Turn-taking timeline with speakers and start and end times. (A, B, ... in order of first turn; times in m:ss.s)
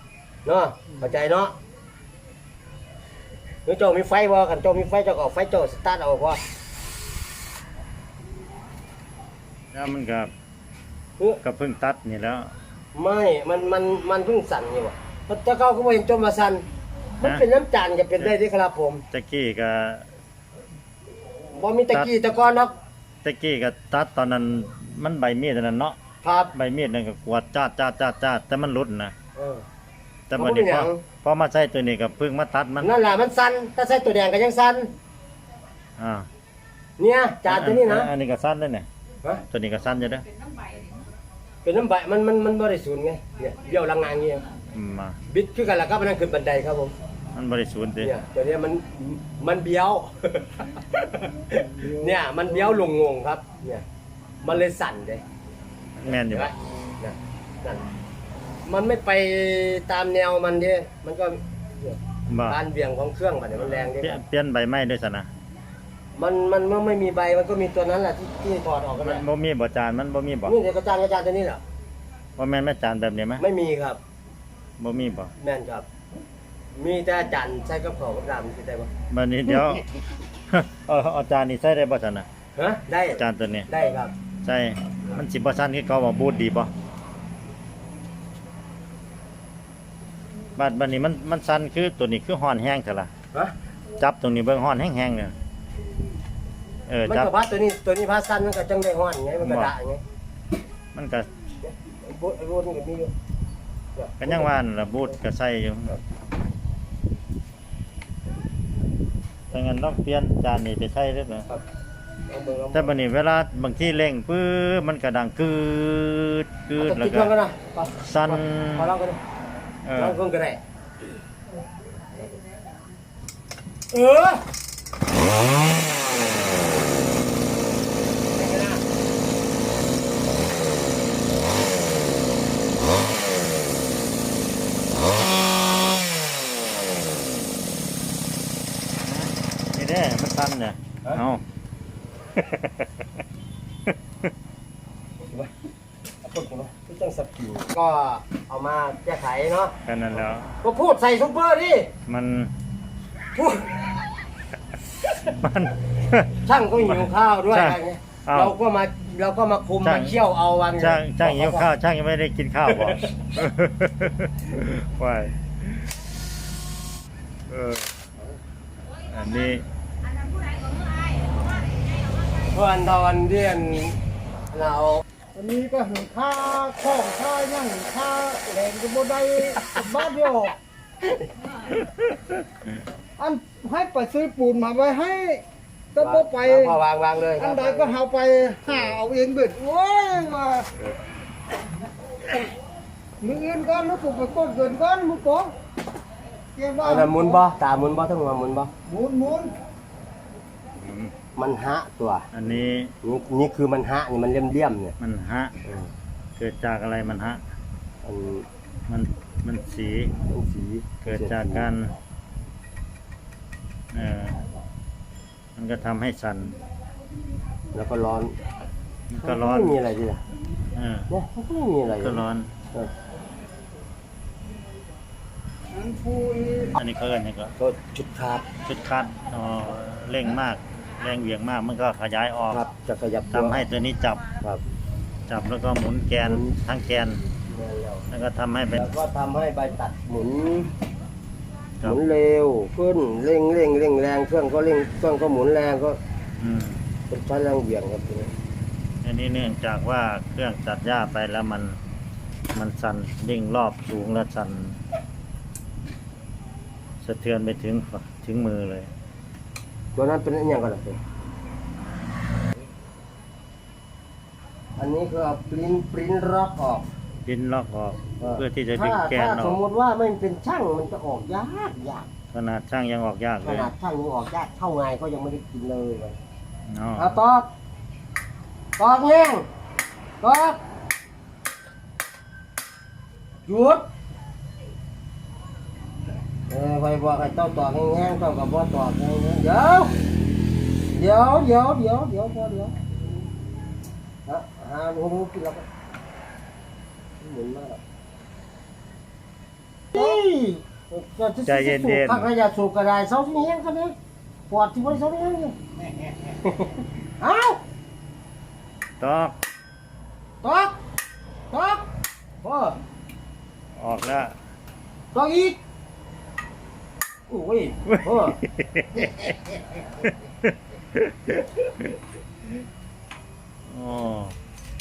0:00.4-0:01.5 A
0:03.6-0:06.4 A
0:09.7-0:10.3 B
0:11.4-0:12.5 B
0:12.9-0:16.6 A
0:17.2-0:19.0 A
0:19.1-0:20.0 B
0:21.5-0:22.7 A
0:23.2-0:26.0 B
0:26.2-0:26.5 A
0:26.5-0:29.1 B
0:29.3-0:29.6 A
0:30.3-0:32.9 B
0:30.4-0:31.0 A
0:32.8-0:34.9 A
0:36.0-0:36.2 B
0:37.0-0:38.1 A
0:37.4-0:38.9 B
0:39.5-0:40.2 B
0:41.6-0:44.4 A
0:44.7-0:45.2 B
0:45.3-0:46.9 A
0:47.3-0:48.1 B
0:48.0-0:53.8 A
0:54.4-0:55.2 A
0:56.0-0:56.5 B
0:56.1-0:57.8 A
0:58.6-1:04.2 A
1:02.3-1:02.6 B
1:03.5-1:05.3 B
1:06.2-1:09.2 A
1:09.0-1:10.6 B
1:10.4-1:11.6 A
1:12.4-1:13.4 B
1:13.4-1:14.0 A
1:14.8-1:15.3 B
1:15.4-1:15.8 A
1:16.7-1:18.9 A
1:19.1-1:19.9 B
1:20.5-1:22.3 B
1:22.6-1:24.1 A
1:23.1-1:23.7 B
1:24.4-1:26.7 B
1:30.6-1:33.1 B
1:34.0-1:35.3 B
1:36.9-1:37.3 B
1:37.0-1:40.0 A
1:39.4-1:39.7 B
1:40.9-1:41.3 B
1:41.6-1:43.1 A
1:44.0-1:44.5 A
1:44.2-1:46.0 B
1:49.5-1:51.5 B
1:52.3-1:52.9 A
1:52.7-1:57.3 B
1:56.8-1:59.2 A
1:58.0-1:58.9 B
1:59.8-2:00.2 B
1:59.9-2:00.6 A
2:03.9-2:04.4 A
2:08.3-2:08.8 A
2:19.0-2:21.4 B
2:22.3-2:23.0 B
2:25.2-2:25.5 A
2:26.2-2:29.7 A
2:29.8-2:30.6 B
2:30.6-2:31.9 A
2:32.1-2:32.5 B
2:33.3-2:33.9 A
2:35.2-2:36.3 B
2:36.4-2:41.7 A
2:36.8-2:38.5 B
2:39.8-2:40.2 B
2:40.8-2:45.9 B
2:47.5-2:47.9 B
2:49.1-2:49.6 B
2:52.4-2:54.0 A
2:54.5-2:55.0 A
2:55.3-3:00.6 C
3:01.8-3:02.3 B
3:03.2-3:05.4 C
3:05.9-3:06.7 C
3:06.0-3:08.0 A
3:07.4-3:10.7 C
3:13.2-3:15.5 C
3:16.6-3:17.4 C
3:16.8-3:18.7 A
3:18.9-3:19.6 C
3:20.8-3:21.1 B
3:21.4-3:22.3 A
3:22.3-3:22.9 B
3:23.0-3:24.9 A
3:25.0-3:25.5 B
3:25.6-3:25.9 A
3:26.4-3:27.4 B
3:28.0-3:28.5 A
3:28.9-3:30.1 B
3:30.3-3:31.7 A
3:31.0-3:31.9 B
3:33.9-3:34.4 B
3:35.6-3:36.6 B
3:37.7-3:38.4 A
3:39.1-3:39.8 B
3:39.2-3:40.2 A
3:40.7-3:41.1 B
3:41.1-3:42.2 A
3:42.0-3:42.5 B
3:45.7-3:46.7 C
3:46.7-3:47.5 B
3:47.6-3:48.5 A
3:48.6-3:52.7 B
3:52.5-3:53.6 A
3:53.3-3:54.2 B
3:55.3-3:57.2 B
3:56.2-3:56.6 A
3:57.5-3:58.1 A
3:58.1-3:58.8 B
3:58.8-4:00.7 A
4:01.8-4:06.0 A
4:06.4-4:06.8 B
4:07.1-4:08.3 A
4:09.0-4:11.8 B
4:12.5-4:14.8 B
4:17.0-4:18.9 B
4:19.9-4:21.0 A
4:24.8-4:26.8 A
4:27.2-4:29.6 B
4:28.2-4:32.1 A
4:32.3-4:33.7 B
4:33.4-4:36.2 A
4:36.7-4:37.2 B
4:37.0-4:37.5 A
4:38.8-4:39.4 A
4:40.2-4:40.6 A
4:43.4-4:43.8 A
4:46.5-4:50.0 A
4:50.9-4:52.7 A
4:54.2-4:55.6 A
4:57.2-4:57.8 A
4:59.9-5:03.9 A
5:01.4-5:02.3 B
5:04.5-5:05.6 A
5:06.3-5:07.6 A
5:09.0-5:09.4 B
5:10.4-5:10.8 A
5:11.5-5:11.8 A
5:12.4-5:12.8 A
5:13.8-5:14.3 B
5:15.1-5:15.6 A
5:17.3-5:18.4 A
5:17.9-5:22.0 B
5:23.7-5:24.3 B